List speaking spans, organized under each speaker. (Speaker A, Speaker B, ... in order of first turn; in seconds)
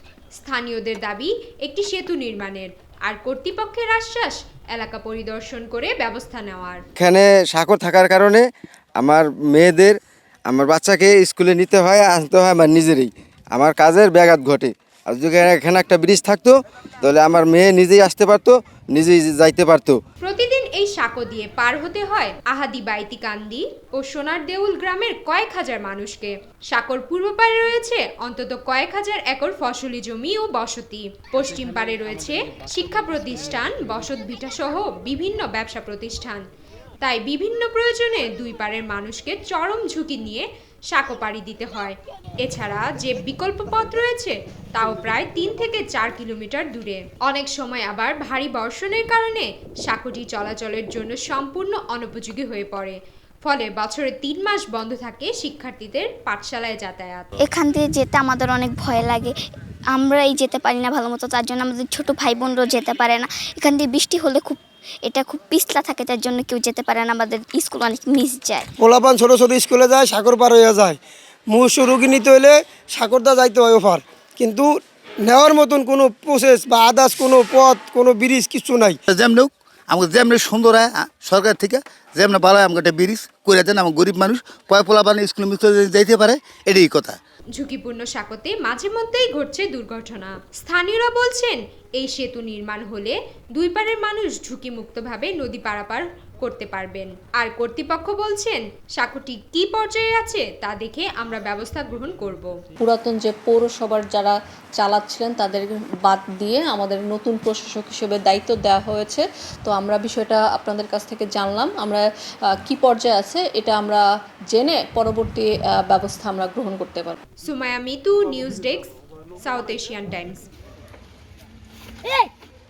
Speaker A: 0.4-6.8, 20.2-36.5, 37.0-57.3, 87.6-102.5, 117.5-120.5
Speaker B: 7.0-8.4, 9.0-20.0
Speaker C: 57.4-59.3, 59.9-68.7
Speaker D: 68.8-71.0, 71.5-74.7, 75.2-79.0
Speaker E: 79.1-87.2
Speaker F: 102.8-112.0, 112.7-117.2